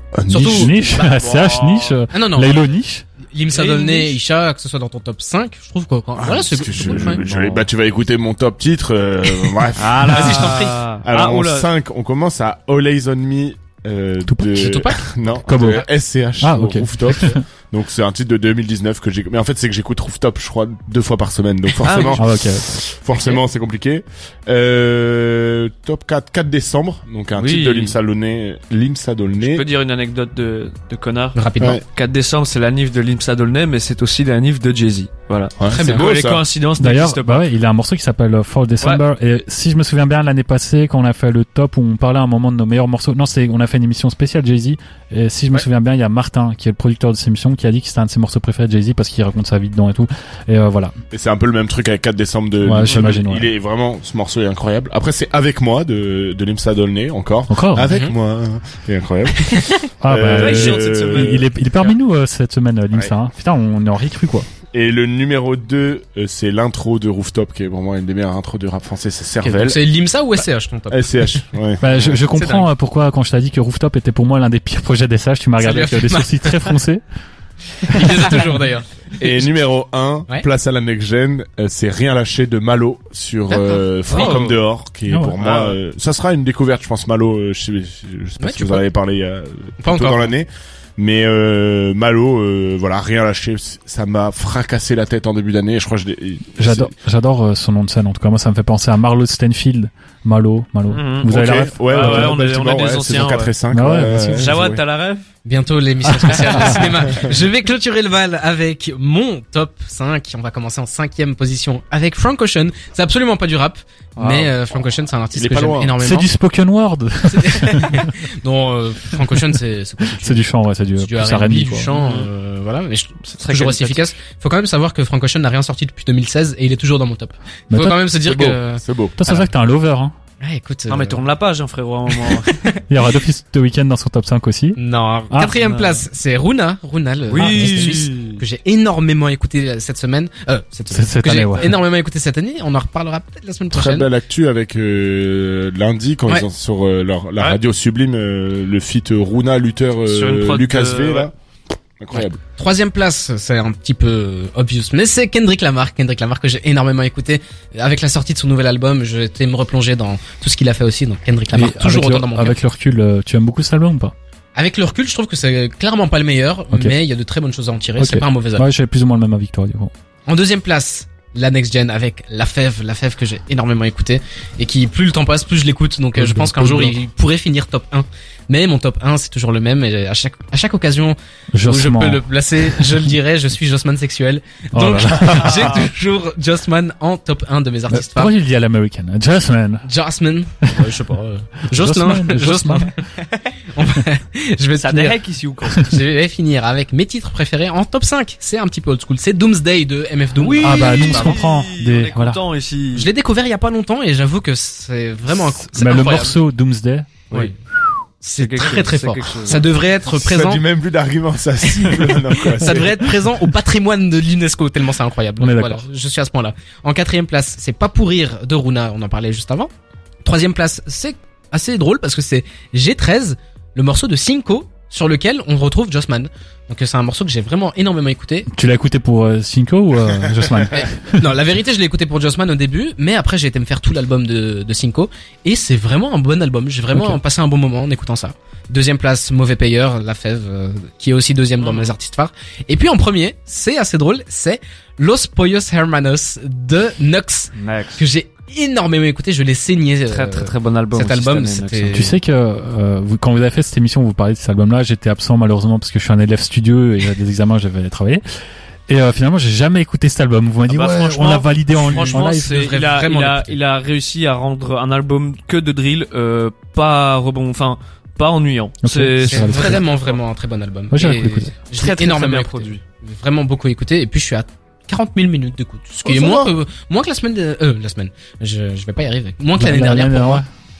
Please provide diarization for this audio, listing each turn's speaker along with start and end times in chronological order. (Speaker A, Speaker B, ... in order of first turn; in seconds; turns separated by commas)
Speaker A: 0.1-0.7, Speaker B: 0.3-1.3, Speaker C: 0.3-3.0, Speaker D: 1.0-2.0, Speaker B: 2.1-2.6, Speaker B: 3.3-7.2, Speaker D: 3.5-4.2, Speaker A: 6.2-29.6, Speaker D: 6.9-7.6, Speaker D: 9.8-11.7, Speaker B: 10.1-10.8, Speaker C: 14.3-14.8, Speaker B: 14.5-15.5, Speaker C: 15.4-15.9, Speaker C: 16.4-17.4, Speaker D: 21.8-22.2, Speaker C: 22.1-22.8, Speaker D: 27.3-27.9, Speaker D: 29.4-37.4, Speaker B: 31.3-31.8, Speaker A: 35.6-36.4, Speaker B: 35.7-36.1, Speaker C: 36.8-50.9, Speaker A: 51.1-61.4, Speaker C: 52.6-53.5, Speaker D: 52.8-53.2, Speaker C: 57.5-57.9, Speaker B: 59.5-59.8, Speaker C: 60.0-64.5, Speaker D: 60.2-61.9, Speaker A: 64.7-69.8, Speaker B: 69.4-71.4, Speaker A: 70.9-72.1, Speaker C: 71.8-77.0, Speaker B: 72.0-72.7, Speaker B: 75.6-76.7, Speaker B: 77.8-79.5, Speaker C: 77.8-78.5, Speaker A: 79.2-96.9, Speaker B: 83.5-84.4, Speaker D: 84.1-84.6, Speaker C: 85.1-85.4, Speaker D: 85.4-85.8, Speaker B: 88.4-88.8, Speaker B: 89.8-90.3, Speaker C: 96.6-102.4, Speaker D: 100.9-103.5, Speaker A: 101.2-104.8, Speaker C: 103.7-104.5, Speaker D: 104.3-105.2, Speaker B: 105.4-116.3, Speaker C: 106.0-107.2, Speaker D: 114.2-114.5, Speaker A: 115.3-116.0, Speaker C: 116.0-118.1, Speaker B: 117.2-129.5, Speaker C: 120.2-121.9, Speaker D: 121.9-122.3, Speaker D: 123.4-124.0, Speaker C: 127.7-128.0, Speaker A: 128.2-129.2, Speaker C: 129.2-130.1, Speaker B: 130.4-131.2, Speaker D: 130.9-132.6, Speaker B: 132.1-132.8, Speaker C: 132.9-134.8, Speaker B: 134.8-144.1, Speaker C: 135.3-135.5, Speaker D: 135.4-136.0, Speaker D: 137.3-138.4, Speaker C: 137.3-137.9, Speaker C: 140.9-141.8, Speaker A: 143.7-151.3, Speaker D: 150.1-151.3, Speaker A: 152.0-152.4, Speaker B: 152.1-162.6, Speaker C: 161.5-164.1, Speaker B: 164.6-168.7, Speaker C: 168.0-169.9, Speaker B: 170.3-188.3, Speaker C: 176.1-176.9, Speaker C: 181.5-183.1, Speaker C: 184.7-185.7, Speaker C: 187.9-189.8, Speaker B: 189.8-193.0, Speaker C: 191.7-193.0, Speaker B: 193.6-195.2, Speaker D: 194.8-195.9, Speaker B: 195.7-201.4, Speaker D: 200.4-203.1, Speaker C: 200.6-202.4, Speaker B: 202.9-206.4, Speaker C: 205.6-207.2, Speaker B: 208.2-210.6, Speaker D: 208.3-209.7, Speaker A: 210.0-213.0, Speaker B: 212.5-219.7, Speaker C: 215.4-215.8, Speaker B: 220.2-228.5, Speaker C: 228.5-231.2, Speaker B: 230.7-252.1, Speaker C: 236.9-237.2, Speaker D: 241.6-241.9, Speaker D: 247.6-248.0, Speaker D: 250.1-252.1, Speaker C: 251.9-258.2, Speaker C: 258.9-262.7, Speaker D: 260.7-269.8, Speaker B: 261.7-263.6, Speaker C: 268.8-269.8, Speaker B: 269.3-280.4, Speaker C: 270.9-271.5, Speaker D: 271.8-272.8, Speaker A: 276.0-276.5, Speaker C: 279.6-280.4